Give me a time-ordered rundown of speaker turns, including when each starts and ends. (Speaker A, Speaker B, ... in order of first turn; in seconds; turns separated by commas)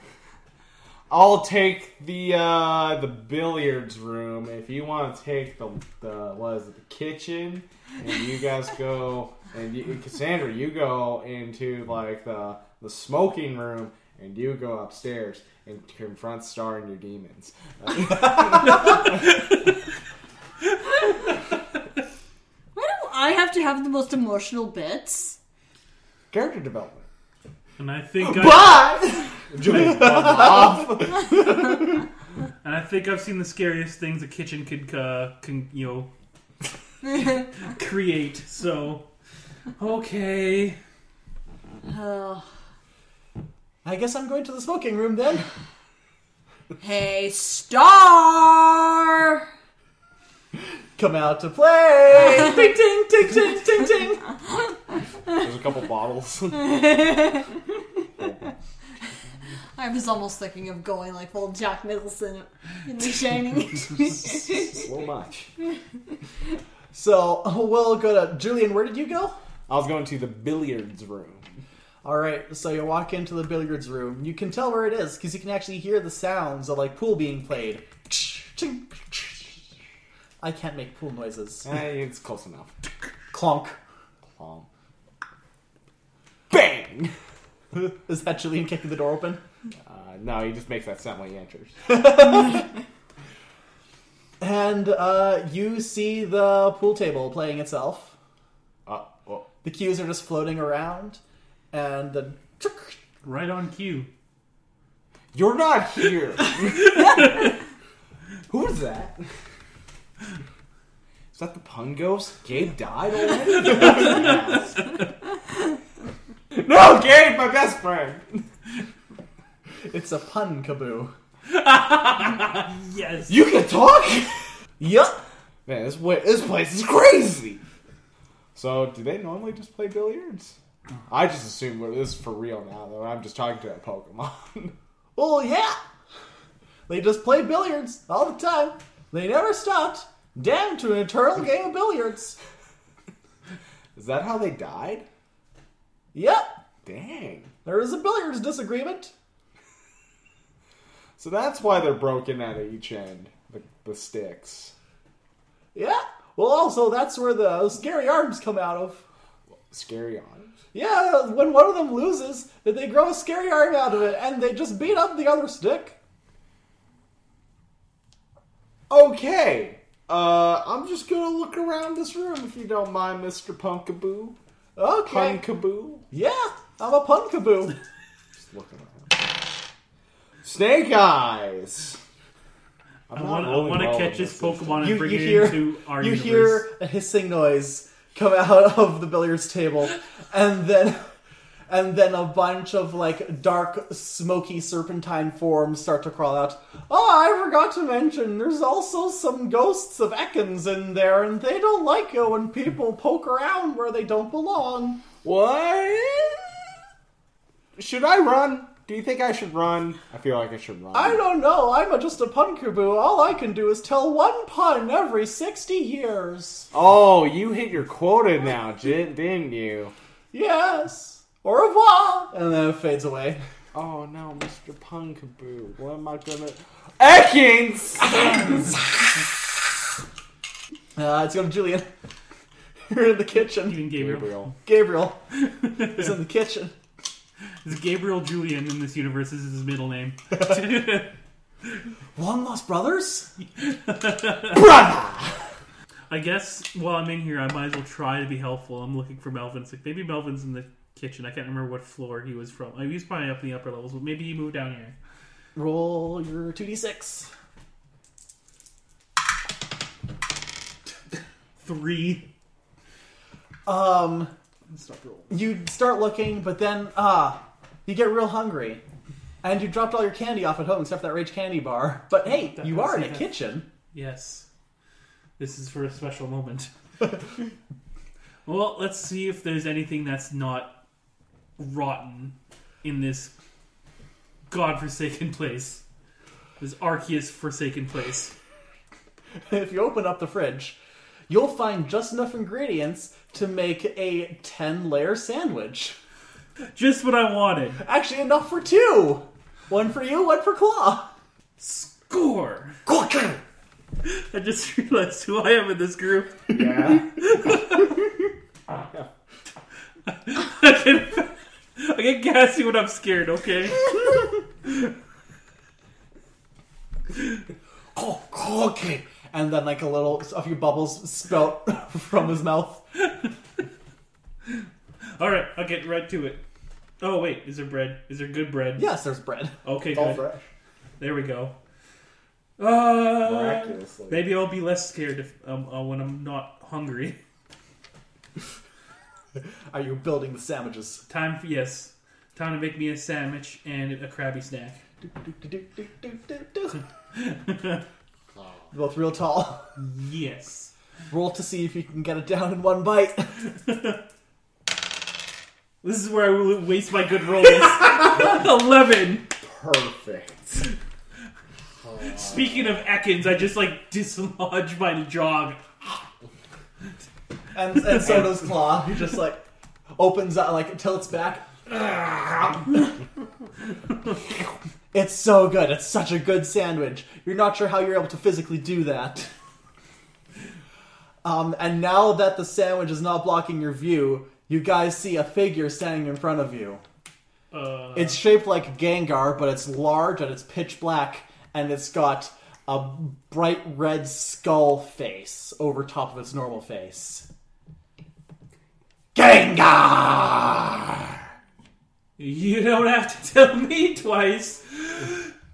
Speaker A: 1.1-19.4, Speaker B: 22.7-25.4, Speaker A: 26.3-27.1, Speaker C: 27.8-28.8, Speaker A: 28.2-31.6, Speaker D: 29.7-30.8, Speaker C: 32.6-36.1, Speaker C: 37.1-39.1, Speaker C: 39.8-40.8, Speaker B: 41.9-42.5, Speaker D: 43.8-45.5, Speaker B: 46.8-49.5, Speaker D: 51.0-54.3, Speaker A: 55.3-56.9, Speaker B: 56.7-57.5, Speaker A: 58.2-58.4, Speaker B: 59.8-64.9, Speaker A: 64.2-65.5, Speaker D: 66.9-69.3, Speaker A: 69.7-71.5, Speaker D: 72.0-79.5, Speaker D: 80.4-81.7, Speaker A: 81.7-82.7, Speaker D: 83.3-83.8, Speaker A: 84.3-84.7, Speaker A: 86.5-87.1, Speaker D: 87.7-89.4, Speaker A: 89.8-91.7, Speaker D: 91.9-92.7, Speaker D: 94.4-98.2, Speaker A: 98.9-99.5, Speaker D: 99.6-101.2, Speaker D: 101.7-103.0, Speaker C: 103.2-104.1, Speaker A: 105.3-107.4, Speaker C: 107.0-107.4, Speaker A: 108.5-109.3, Speaker A: 111.3-114.9, Speaker C: 113.6-114.6, Speaker A: 116.5-118.5, Speaker D: 119.9-121.1, Speaker C: 121.5-123.4, Speaker A: 123.3-124.5, Speaker D: 124.8-125.2, Speaker A: 125.7-127.6, Speaker A: 128.6-130.6, Speaker A: 131.1-134.8, Speaker D: 135.2-135.8, Speaker D: 136.9-142.4, Speaker A: 143.9-145.1, Speaker D: 146.1-146.5, Speaker A: 146.8-147.5, Speaker D: 147.7-149.1, Speaker A: 151.2-154.7, Speaker D: 155.8-159.0, Speaker A: 159.7-160.5, Speaker D: 160.7-166.0, Speaker A: 168.9-174.4, Speaker D: 174.8-175.4, Speaker A: 175.1-176.0, Speaker D: 176.1-177.8, Speaker A: 178.4-179.3, Speaker A: 180.4-182.0, Speaker A: 183.1-184.9, Speaker C: 183.1-186.7, Speaker D: 184.8-191.1, Speaker D: 191.7-205.0, Speaker A: 205.2-206.6, Speaker A: 207.8-211.2, Speaker D: 210.9-216.7, Speaker A: 216.7-219.9, Speaker D: 220.3-223.4, Speaker A: 223.7-228.7, Speaker D: 228.1-228.7, Speaker D: 231.0-231.9, Speaker D: 232.9-233.8, Speaker C: 233.6-234.5, Speaker A: 234.0-234.5, Speaker D: 234.7-235.2, Speaker C: 235.6-236.1, Speaker D: 235.8-236.7, Speaker C: 237.6-241.1, Speaker D: 242.2-243.3, Speaker C: 243.6-244.6, Speaker A: 244.5-245.4, Speaker C: 246.1-254.9, Speaker D: 255.6-257.3, Speaker C: 261.6-262.3, Speaker D: 263.7-264.3, Speaker C: 264.7-265.3, Speaker D: 265.3-268.8, Speaker D: 269.4-273.7, Speaker C: 272.2-273.4, Speaker C: 273.9-274.5, Speaker C: 275.4-276.7, Speaker C: 278.5-280.8, Speaker C: 281.6-283.3, Speaker C: 284.5-285.8, Speaker C: 286.6-288.3, Speaker D: 289.5-290.8, Speaker D: 291.3-296.0, Speaker C: 296.7-297.8, Speaker D: 297.8-301.1, Speaker C: 301.6-302.8, Speaker D: 302.9-303.4, Speaker C: 304.0-307.9, Speaker A: 306.5-307.3, Speaker C: 310.1-314.7, Speaker D: 317.9-322.8, Speaker C: 325.2-326.4, Speaker C: 327.0-328.9, Speaker D: 328.8-329.6, Speaker C: 329.6-330.2, Speaker A: 329.9-330.4, Speaker C: 331.0-331.5, Speaker C: 332.6-337.2, Speaker A: 333.2-334.3, Speaker D: 339.7-341.0, Speaker C: 341.1-344.8, Speaker D: 345.1-346.8, Speaker C: 347.1-347.8, Speaker D: 348.7-349.7, Speaker C: 349.8-350.7, Speaker D: 351.1-353.4, Speaker C: 353.7-353.9, Speaker C: 355.8-359.3, Speaker A: 359.4-360.7, Speaker C: 362.1-365.6, Speaker D: 367.5-369.4, Speaker C: 368.0-368.4, Speaker D: 370.0-372.6, Speaker D: 374.9-379.3, Speaker D: 381.2-386.8, Speaker C: 387.5-388.2, Speaker D: 387.9-397.3, Speaker D: 399.1-401.1, Speaker C: 402.2-405.3